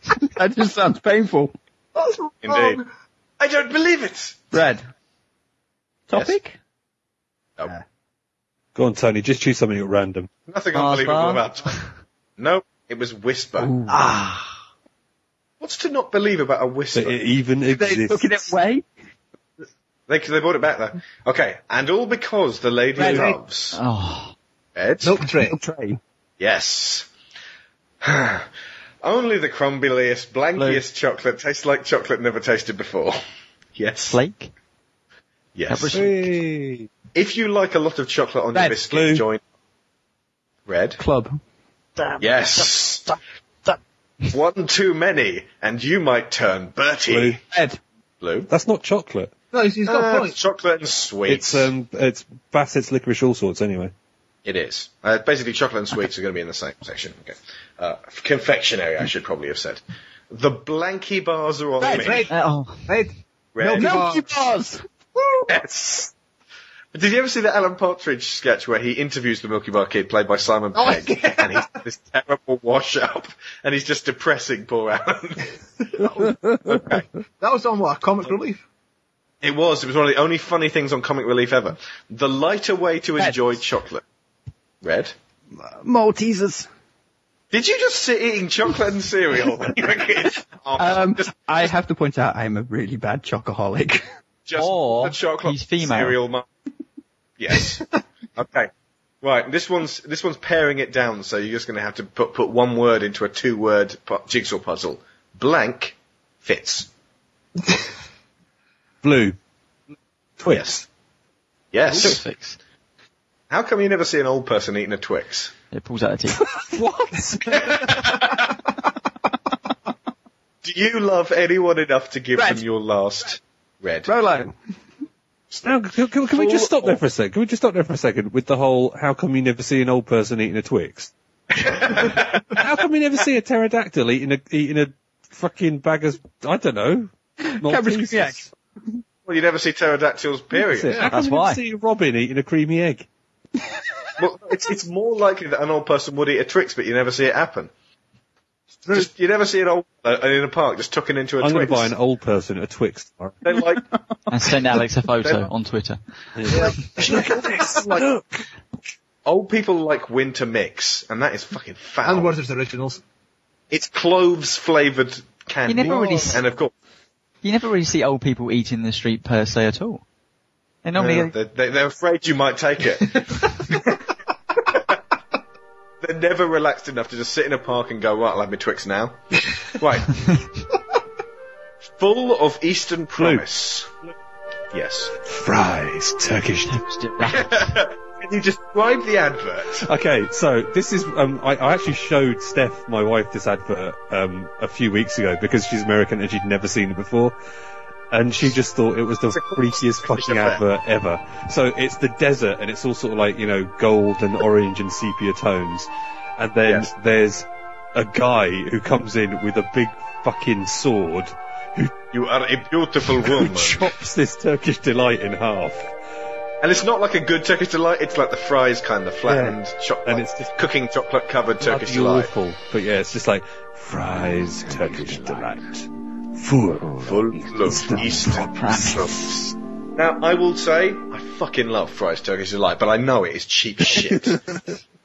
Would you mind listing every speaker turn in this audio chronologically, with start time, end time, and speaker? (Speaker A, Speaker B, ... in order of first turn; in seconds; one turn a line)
Speaker A: 0.3-1.5
Speaker B: 1.9-2.9
Speaker C: 2.4-2.8
Speaker C: 3.4-4.5
Speaker A: 4.5-4.8
Speaker A: 6.1-6.6
Speaker D: 8.7-10.3
Speaker C: 10.5-11.8
Speaker E: 10.7-11.9
Speaker C: 12.4-13.7
Speaker A: 13.6-14.0
Speaker E: 13.9-14.5
Speaker C: 15.6-17.2
Speaker D: 16.9-18.5
Speaker A: 17.7-18.9
Speaker C: 20.1-23.8
Speaker B: 23.0-23.3
Speaker E: 23.7-24.3
Speaker C: 24.8-25.2
Speaker B: 25.0-25.6
Speaker A: 25.4-26.0
Speaker C: 26.4-27.1
Speaker C: 28.0-28.5
Speaker C: 29.0-33.2
Speaker E: 30.5-30.8
Speaker C: 33.8-34.2
Speaker E: 34.1-34.5
Speaker C: 35.5-36.1
Speaker E: 35.7-36.3
Speaker D: 35.9-36.9
Speaker C: 37.1-39.4
Speaker D: 38.9-39.2
Speaker C: 40.6-41.0
Speaker A: 41.0-41.4
Speaker C: 42.2-43.1
Speaker C: 44.3-47.4
Speaker D: 47.1-47.4
Speaker A: 47.5-47.8
Speaker C: 48.2-48.5
Speaker D: 48.5-49.3
Speaker B: 49.5-50.4
Speaker C: 49.9-51.7
Speaker D: 51.3-53.9
Speaker C: 54.4-62.3
Speaker A: 61.8-62.2
Speaker B: 61.9-62.3
Speaker E: 62.3-62.9
Speaker B: 62.9-64.3
Speaker C: 63.5-64.0
Speaker A: 63.7-64.8
Speaker C: 65.5-66.1
Speaker C: 66.9-75.5
Speaker B: 70.8-71.6
Speaker C: 76.7-77.0
Speaker B: 77.4-78.6
Speaker C: 79.4-84.0
Speaker A: 83.2-83.5
Speaker C: 84.8-85.1
Speaker A: 85.5-86.7
Speaker C: 87.5-91.7
Speaker A: 90.8-94.0
Speaker C: 94.5-96.5
Speaker E: 94.5-96.2
Speaker C: 97.4-97.8
Speaker C: 98.3-98.7
Speaker C: 99.2-106.9
Speaker D: 109.0-109.3
Speaker D: 110.4-110.8
Speaker C: 111.7-112.2
Speaker E: 111.9-112.6
Speaker C: 113.5-115.5
Speaker E: 115.7-116.4
Speaker D: 116.5-118.0
Speaker C: 117.7-117.9
Speaker C: 120.6-124.1
Speaker A: 122.3-122.6
Speaker A: 124.0-124.5
Speaker D: 125.6-131.1
Speaker C: 126.3-127.0
Speaker C: 131.6-132.4
Speaker D: 132.5-138.5
Speaker A: 137.4-138.5
Speaker C: 139.2-141.0
Speaker D: 140.5-143.1
Speaker E: 141.0-141.6
Speaker C: 144.2-147.7
Speaker C: 148.9-151.9
Speaker D: 151.4-153.4
Speaker C: 153.4-153.8
Speaker E: 154.3-156.0
Speaker D: 156.4-158.4
Speaker B: 156.5-157.3
Speaker C: 157.0-158.1
Speaker C: 159.2-162.3
Speaker B: 162.0-163.0
Speaker C: 163.7-166.7
Speaker E: 165.7-166.4
Speaker E: 167.4-170.0
Speaker E: 170.8-171.3
Speaker C: 170.9-173.8
Speaker C: 176.0-179.2
Speaker C: 179.7-180.1
Speaker C: 182.0-183.9
Speaker D: 183.2-183.4
Speaker C: 184.7-185.1
Speaker D: 185.3-186.8
Speaker E: 186.6-187.8
Speaker C: 187.3-189.9
Speaker D: 189.8-197.3
Speaker D: 198.1-211.9
Speaker C: 199.3-200.6
Speaker C: 206.6-206.9
Speaker C: 212.1-213.9
Speaker D: 213.2-215.9
Speaker C: 216.6-222.3
Speaker D: 219.2-220.5
Speaker D: 221.6-229.1
Speaker C: 227.0-229.3
Speaker E: 228.4-229.1
Speaker C: 229.9-234.4